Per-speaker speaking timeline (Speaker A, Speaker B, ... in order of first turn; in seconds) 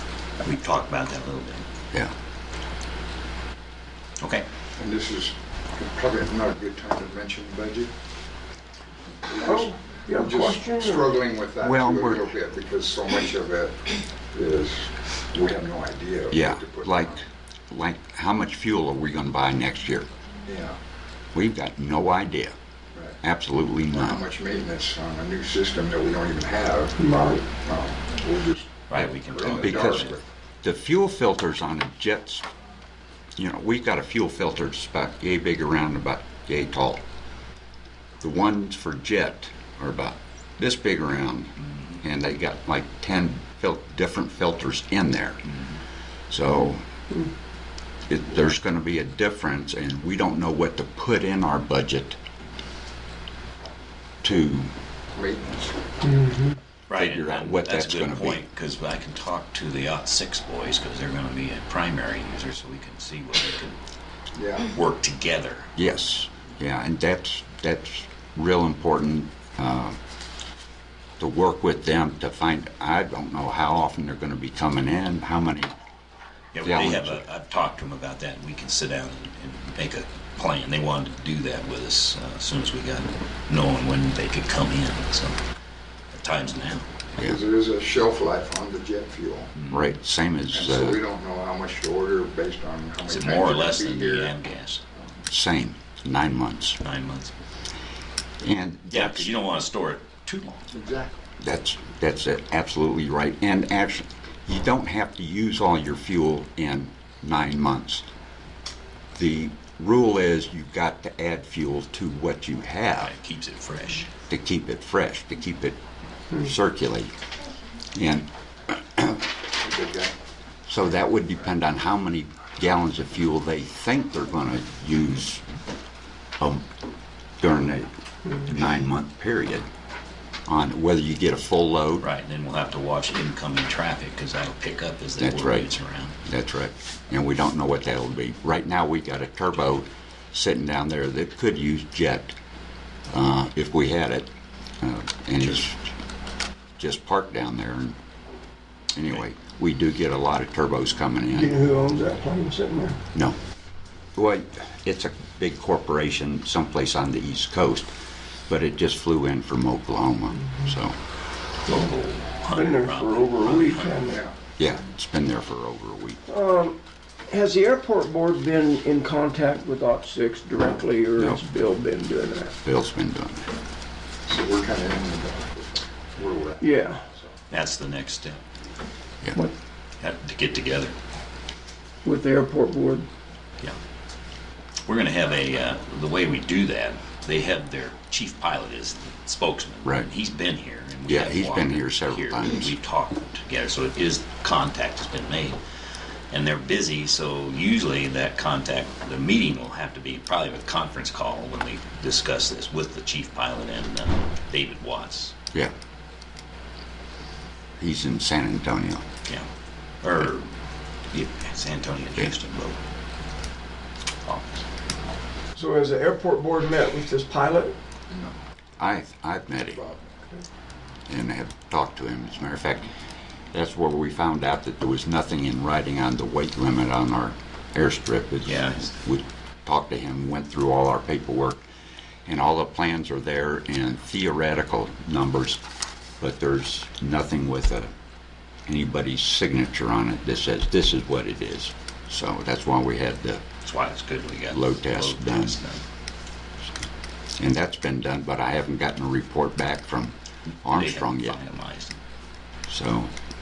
Speaker A: 0.4-1.6, 4.2-4.5, 28.9-30.2, 41.6-42.0, 45.5-45.8, 56.9-63.8, 64.6-65.7, 76.5-85.4, 86.1-86.9, 89.6-89.8, 93.1-94.8, 96.8-97.4, 98.9-100.7, 113.0-114.1, 132.0-136.2, 161.7-164.0, 177.5-178.4, 180.0-180.9, 184.9-195.6, 196.3-205.3, 210.0-210.5, 211.1-212.8, 214.2-214.6, 228.4-228.9, 243.6-245.8, 250.7-252.0
Speaker B: 4.8-7.9, 9.3-17.2, 20.4-20.8, 24.0-30.2, 55.1-55.9, 64.3-64.7, 87.2-89.5, 90.5-94.3, 100.7-101.2, 119.6-120.1, 164.1-164.3, 174.3-177.3, 218.1-218.4, 219.8-220.1
Speaker C: 9.4-11.2, 27.0-27.5, 56.0-56.6, 151.3-153.0, 162.5-164.2, 166.3-166.8, 167.3-172.5, 176.6-177.0, 182.1-183.1, 215.6-217.8
Speaker D: 11.6-12.3, 16.3-20.1, 21.3-22.6, 23.2-24.2, 29.5-30.1, 30.6-32.5, 33.4-37.0, 38.2-45.4, 46.3-46.8, 48.1-52.2, 54.2-54.7, 56.9-58.5, 65.8-70.0, 71.2-75.7, 76.6-77.2, 89.7-91.0, 95.3-96.8, 98.4-99.3, 101.4-108.0, 109.2-113.1, 114.3-115.8, 116.3-117.1, 117.9-119.3, 120.7-125.4, 126.4-126.7, 127.4-129.7, 130.5-132.1, 135.2-135.7, 136.2-142.3, 143.1-145.9, 146.8-148.0, 148.9-151.7, 154.2-157.9, 158.5-160.9, 164.6-166.2, 172.6-173.5, 191.1-192.7, 207.8-209.0, 218.8-219.9, 221.1-222.9, 223.5-231.6, 232.3-235.6, 236.2-237.9, 238.7-243.4, 244.5-245.6, 247.4-251.4, 252.7-253.1